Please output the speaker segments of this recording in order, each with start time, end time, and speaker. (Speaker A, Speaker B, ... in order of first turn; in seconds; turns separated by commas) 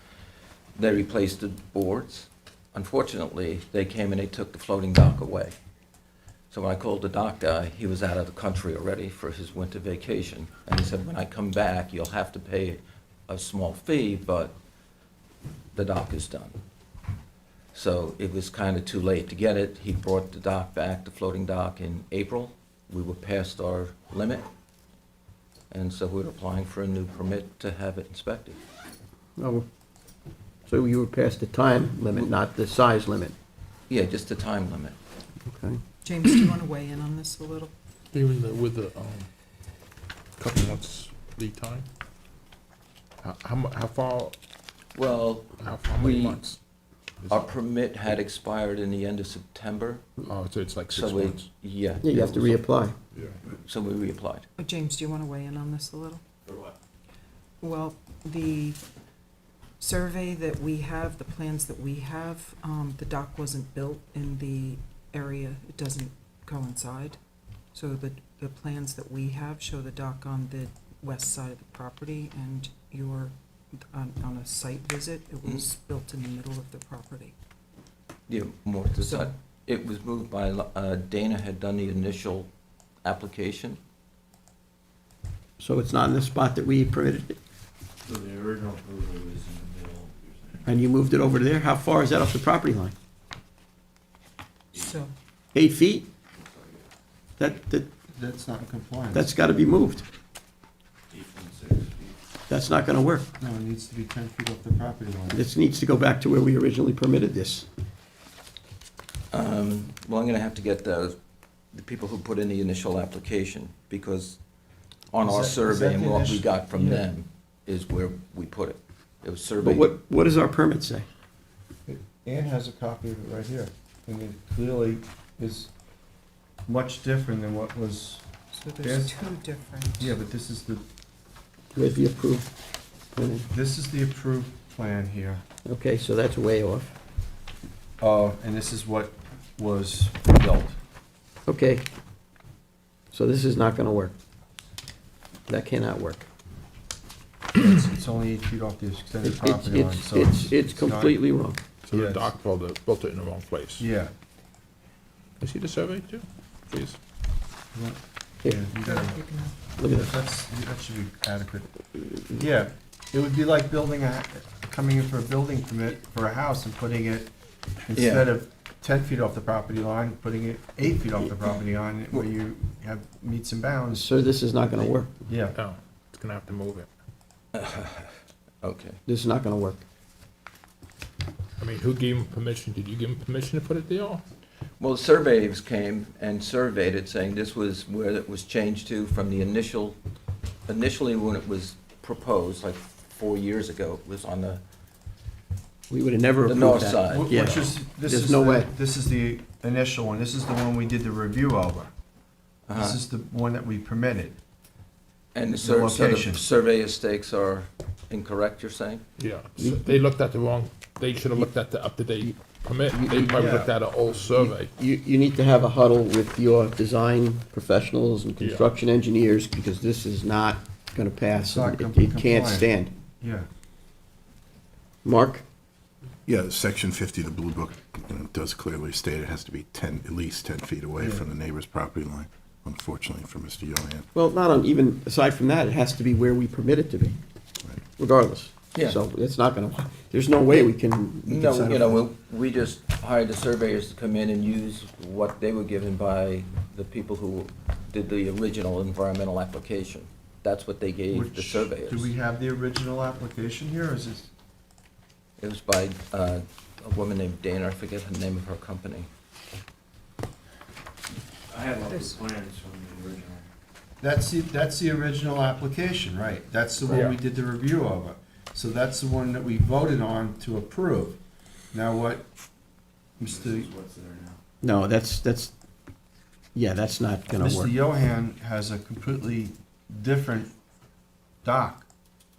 Speaker A: 0.8-5.5, Speaker A: 6.5-14.6, Speaker A: 15.8-16.6, Speaker A: 17.7-24.4, Speaker A: 25.7-28.6, Speaker B: 29.4-29.7, Speaker B: 30.7-33.4, Speaker A: 33.9-35.0, Speaker B: 35.5-35.8, Speaker C: 36.0-37.7, Speaker D: 38.1-39.3, Speaker D: 40.4-41.9, Speaker D: 43.2-44.4, Speaker A: 45.0-46.4, Speaker D: 45.6-46.6, Speaker A: 47.3-50.0, Speaker D: 50.2-51.5, Speaker A: 50.9-52.6, Speaker B: 52.0-53.0, Speaker A: 53.6-54.5, Speaker C: 54.6-56.2, Speaker C: 57.6-58.8, Speaker C: 59.8-67.2, Speaker C: 67.7-77.3, Speaker A: 78.3-82.5, Speaker C: 79.0-79.3, Speaker A: 83.0-83.8, Speaker B: 85.6-87.4, Speaker E: 88.0-90.7, Speaker B: 90.7-92.9, Speaker C: 94.8-95.1, Speaker B: 95.5-96.1, Speaker E: 96.4-96.8, Speaker B: 97.4-97.9, Speaker F: 98.1-99.3, Speaker B: 99.1-100.1, Speaker E: 101.1-102.2, Speaker B: 102.5-103.3, Speaker F: 103.4-105.5, Speaker B: 105.3-107.7, Speaker A: 109.3-111.2, Speaker A: 111.7-114.4, Speaker A: 115.1-119.9, Speaker F: 115.2-117.0, Speaker B: 119.6-121.1, Speaker F: 121.9-125.7, Speaker F: 126.7-128.3, Speaker C: 128.5-130.2, Speaker F: 128.8-129.2, Speaker F: 130.0-130.8, Speaker B: 131.7-132.5, Speaker B: 133.1-133.5, Speaker F: 133.5-135.4, Speaker B: 135.7-136.9, Speaker F: 138.0-140.8, Speaker B: 141.5-141.9, Speaker B: 143.1-144.2, Speaker B: 145.5-146.3, Speaker F: 147.5-151.2, Speaker B: 149.2-151.6, Speaker D: 151.8-153.9, Speaker F: 151.9-152.3, Speaker F: 153.8-154.1, Speaker D: 155.4-157.0, Speaker F: 157.7-159.2, Speaker B: 158.4-158.7, Speaker C: 158.8-159.6, Speaker B: 159.8-160.2, Speaker F: 159.8-161.7, Speaker F: 162.4-167.3, Speaker F: 167.9-174.2, Speaker A: 167.9-168.3, Speaker B: 173.9-175.1, Speaker F: 175.3-175.6, Speaker D: 175.5-176.9, Speaker A: 177.5-179.0, Speaker B: 179.1-179.8, Speaker D: 181.6-184.2, Speaker A: 184.8-190.0, Speaker A: 190.7-194.6, Speaker B: 195.9-198.7, Speaker A: 196.5-197.5, Speaker F: 197.1-201.9, Speaker A: 202.7-203.0, Speaker F: 202.7-204.4, Speaker A: 205.3-209.0, Speaker F: 205.6-206.4, Speaker D: 209.2-214.7, Speaker B: 209.6-210.0, Speaker B: 212.9-213.5, Speaker F: 213.3-213.7, Speaker B: 214.4-222.9, Speaker D: 218.4-218.7, Speaker F: 221.4-223.5, Speaker B: 225.1-225.4, Speaker G: 226.3-234.1, Speaker B: 234.1-237.2, Speaker B: 238.0-242.0, Speaker A: 238.8-239.0, Speaker A: 241.2-252.1, Speaker F: 251.1-254.3, Speaker A: 255.4-259.1, Speaker E: 261.5-263.5, Speaker C: 261.9-262.2, Speaker F: 264.0-271.2, Speaker D: 266.9-267.2, Speaker F: 271.7-272.3, Speaker F: 273.2-273.7, Speaker E: 273.2-274.4, Speaker B: 274.6-275.5, Speaker B: 276.6-277.8, Speaker F: 277.4-280.5, Speaker F: 281.4-281.9